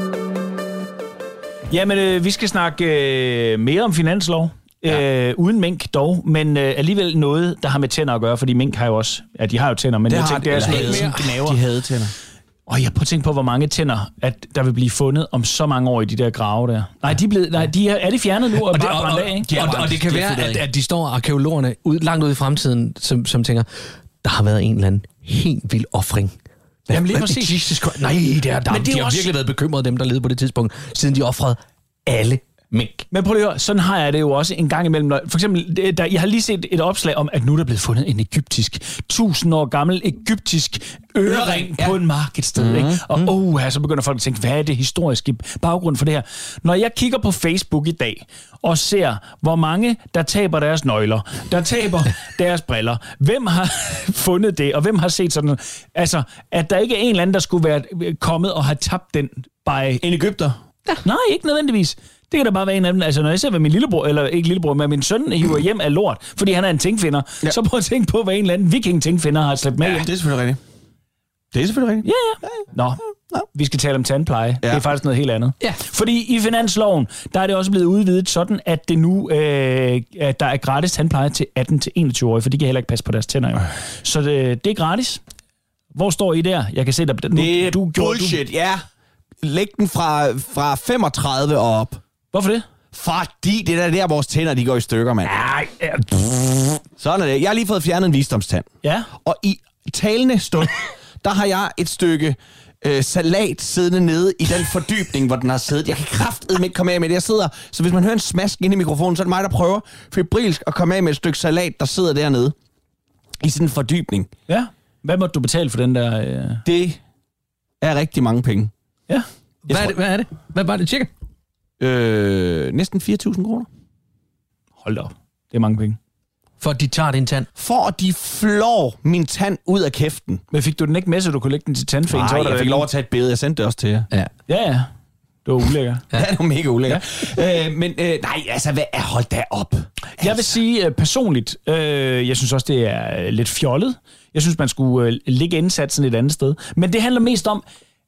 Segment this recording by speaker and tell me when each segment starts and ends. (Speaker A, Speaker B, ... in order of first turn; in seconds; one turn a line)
Speaker A: 1.7-11.6
Speaker B: 10.1-12.1
Speaker C: 10.5-11.4
Speaker A: 12.7-19.5
Speaker C: 18.6-23.7
Speaker B: 19.5-20.7
Speaker C: 24.2-26.4
Speaker A: 26.9-27.6
Speaker C: 26.9-33.1
Speaker A: 28.7-29.3
Speaker A: 33.1-60.0
Speaker B: 41.2-42.0
Speaker B: 42.6-43.0
Speaker B: 60.0-60.6
Speaker A: 61.0-70.1
Speaker B: 69.8-70.6
Speaker B: 71.5-72.6
Speaker A: 72.0-73.0
Speaker A: 73.5-85.2
Speaker A: 85.9-88.4
Speaker B: 87.3-88.8
Speaker B: 89.4-92.0
Speaker A: 92.3-92.7
Speaker B: 92.9-95.5
Speaker A: 95.3-96.1
Speaker B: 97.0-112.5
Speaker A: 98.8-99.1
Speaker B: 113.4-114.3
Speaker A: 114.5-116.6
Speaker B: 116.7-117.0
Speaker B: 117.8-118.7
Speaker C: 119.7-121.1
Speaker B: 119.7-119.9
Speaker B: 121.8-123.7
Speaker A: 124.8-126.0
Speaker C: 126.6-127.5
Speaker B: 127.6-130.4
Speaker A: 130.5-132.9
Speaker B: 132.1-134.1
Speaker A: 134.5-134.9
Speaker A: 135.4-136.1
Speaker B: 136.1-140.6
Speaker A: 140.2-147.6